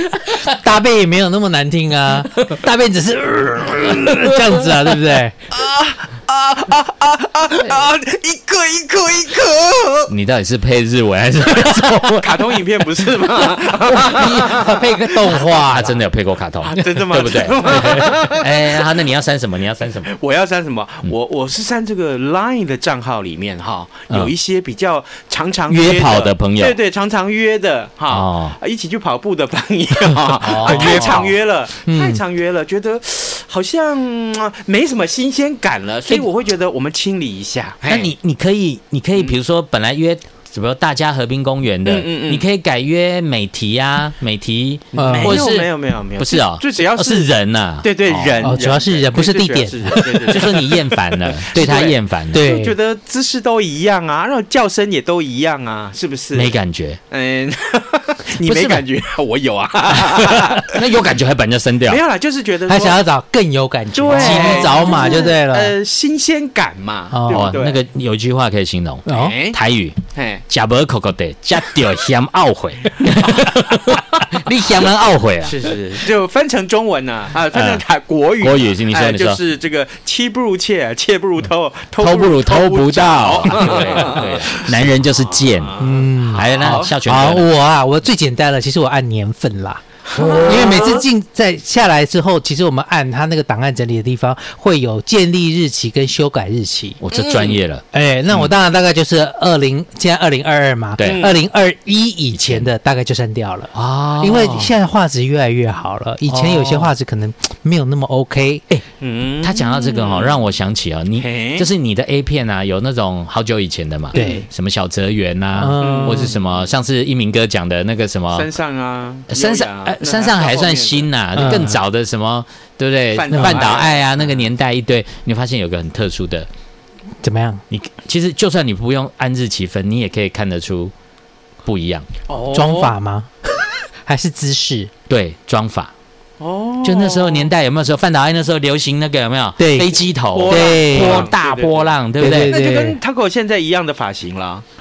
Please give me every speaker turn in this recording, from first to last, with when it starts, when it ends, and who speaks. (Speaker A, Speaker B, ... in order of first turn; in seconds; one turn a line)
Speaker A: 0.4-5.3
Speaker B: 5.5-10.1
Speaker C: 10.1-12.6
Speaker B: 12.2-15.7
Speaker C: 13.8-20.1
Speaker A: 14.2-16.0
Speaker B: 16.6-18.9
Speaker B: 20.1-38.1
Speaker C: 25.7-26.8
Speaker C: 28.1-28.6
Speaker C: 30.3-31.3
Speaker A: 30.4-31.2
Speaker A: 31.9-32.2
Speaker C: 37.9-48.4
Speaker B: 41.9-42.5
Speaker B: 45.0-50.8
Speaker A: 45.0-45.4
Speaker A: 48.4-50.7
Speaker C: 50.1-52.4
Speaker B: 51.4-56.5
Speaker A: 51.5-52.8
Speaker C: 56.3-57.0
Speaker B: 57.1-60.7
Speaker C: 58.4-58.8
Speaker C: 60.2-62.0
Speaker B: 61.9-63.0
Speaker A: 62.7-65.8
Speaker B: 63.9-67.8
Speaker C: 64.1-65.1
Speaker A: 67.1-67.5
Speaker C: 67.3-75.6
Speaker A: 69.1-69.4
Speaker B: 69.1-69.6
Speaker B: 70.1-70.4
Speaker B: 75.4-86.9
Speaker C: 77.5-77.8
Speaker C: 78.4-79.4
Speaker C: 82.0-85.8
Speaker A: 85.8-97.0
Speaker C: 86.3-87.5
Speaker B: 90.1-91.1
Speaker C: 97.0-98.5
Speaker B: 97.1-97.6
Speaker A: 97.9-108.6
Speaker C: 101.0-101.3
Speaker B: 101.0-101.4
Speaker C: 102.3-102.7
Speaker C: 103.7-104.8
Speaker C: 106.3-106.9
Speaker B: 109.0-110.4
Speaker C: 109.4-118.5
Speaker B: 111.2-111.7
Speaker A: 114.1-114.5
Speaker B: 114.2-114.4
Speaker A: 115.5-116.4
Speaker B: 115.8-116.4
Speaker B: 118.3-121.1
Speaker C: 119.3-126.5
Speaker A: 121.3-121.8
Speaker B: 123.1-124.2
Speaker A: 123.3-123.6
Speaker A: 127.2-127.6
Speaker C: 127.7-130.9
Speaker C: 131.7-132.1
Speaker B: 132.3-133.0
Speaker A: 132.5-133.3
Speaker A: 134.0-134.9
Speaker C: 135.1-135.9
Speaker B: 136.4-137.5
Speaker C: 136.8-142.6
Speaker A: 139.6-141.3
Speaker B: 140.3-144.7
Speaker A: 142.2-143.0